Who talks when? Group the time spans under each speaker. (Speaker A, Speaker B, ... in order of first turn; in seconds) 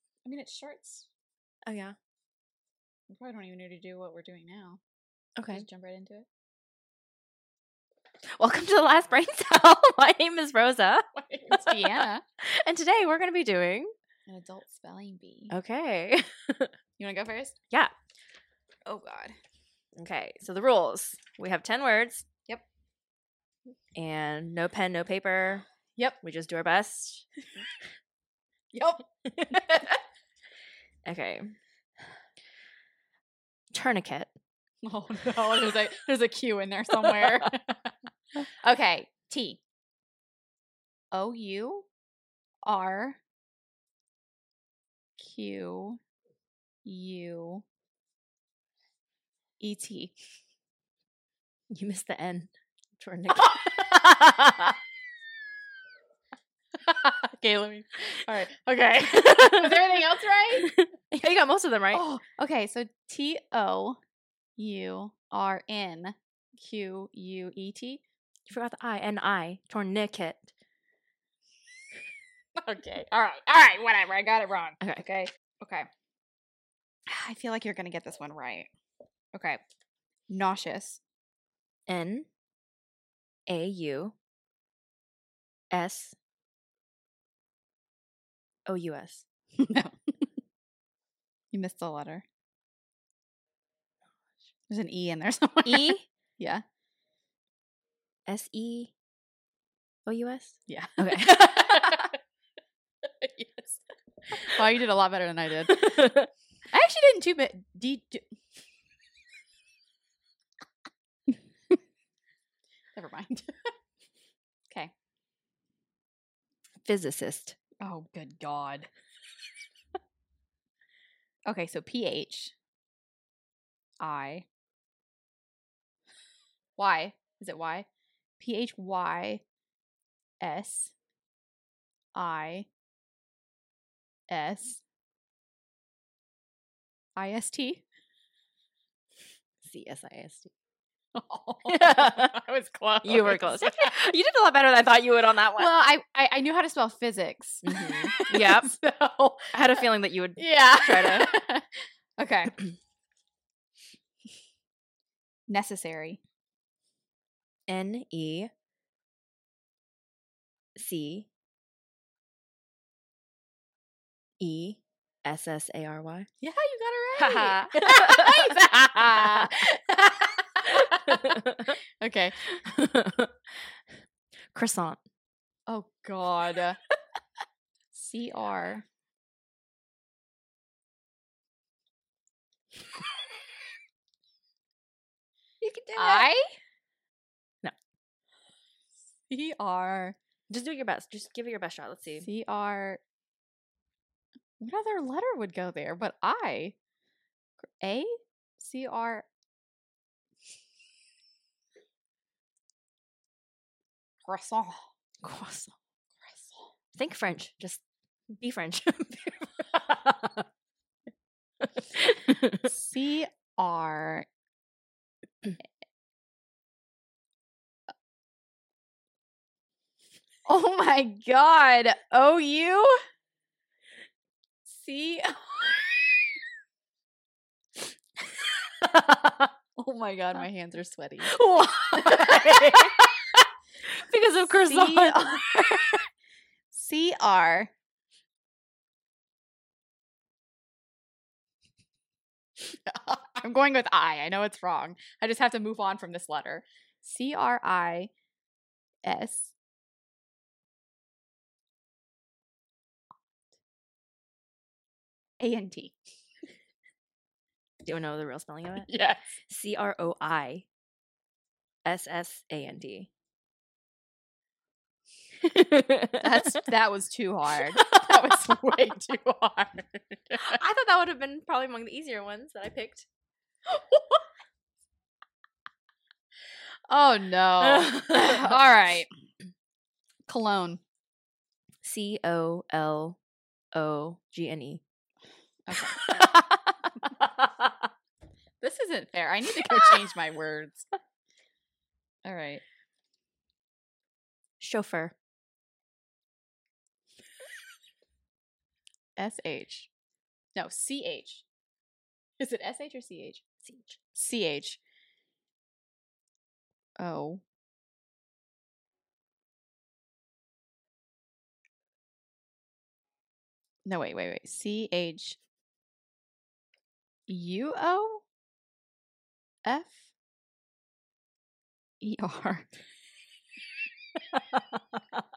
Speaker A: 0.2-1.1, 3.1-4.8, 5.5-6.3, 11.1-12.2, 14.3-15.5, 17.0-17.5, 18.9-19.4, 28.7-29.0, 34.8-37.6, 38.4-39.6, 41.1-41.9, 42.6-43.2, 45.2-46.0, 46.8-47.6, 49.6-50.1, 53.4-53.9, 56.8-60.7, 61.9-64.0, 64.6-68.0, 72.6-75.9, 77.1-78.7, 79.3-79.6, 80.3-81.0, 89.6-90.2, 91.5-92.2, 94.7-96.6, 100.7-102.2, 103.0-105.9, 106.7-108.2, 112.9-113.7, 117.8-118.9, 121.5-122.5, 124.0-124.5, 126.8-127.9, 128.4-129.4, 130.4-130.9, 132.1-132.7, 134.3-134.8, 137.2-137.8, 141.1-143.9, 145.6-149.8, 150.4-152.6, 155.5-156.2, 166.4-172.4, 175.7-176.8, 177.9-178.8, 185.9-186.5, 189.3-190.2, 192.2-193.0, 194.6-196.8, 197.6-199.3, 204.2-204.8, 212.6-214.3, 220.4-223.0, 224.6-226.0, 229.8-231.3, 231.9-232.9, 234.5-235.9, 236.7-237.7, 242.6-248.1, 249.0-249.5, 255.4-256.0, 258.8-259.3, 266.2-270.6, 273.7-274.2, 276.9-279.1, 280.3-280.8, 285.6-286.3, 288.6-290.9, 292.2-292.6, 299.2-299.9, 300.6-301.4, 302.4-303.4, 304.1-304.8, 307.0-307.4, 313.8-315.4, 317.3-318.2, 319.6-320.1, 322.0-322.7
Speaker B: 1.6-1.9, 5.4-5.7, 8.4-13.9, 15.5-16.7, 20.0-22.2, 23.9-25.6, 26.2-27.2, 29.3-30.0, 31.0-31.5, 33.7-34.3, 37.0-37.5, 51.7-54.8, 59.0-60.0, 60.5-62.0, 68.5-70.5, 74.8-75.3, 81.9-82.3, 83.5-84.1, 85.7-86.2, 88.7-89.2, 95.6-96.0, 98.3-98.9, 100.0-102.1, 105.7-106.3, 116.8-117.6, 139.6-140.5, 141.7-142.3, 143.0-145.7, 147.6-148.7, 149.5-151.3, 157.7-158.5, 160.8-161.3, 164.4-166.3, 167.2-168.5, 169.1-169.5, 170.6-171.8, 172.4-173.3, 174.5-175.0, 185.6-186.3, 190.5-192.3, 205.2-205.7, 206.9-207.8, 208.4-210.4, 211.7-212.7, 228.6-229.5, 231.3-233.1, 233.9-235.9, 257.8-258.9, 259.5-260.6, 261.8-263.1, 265.4-266.6, 267.8-268.8, 270.4-273.1, 277.6-278.6, 281.8-283.2, 283.7-284.8, 285.9-287.7, 289.5-290.0, 294.6-295.1, 303.6-304.0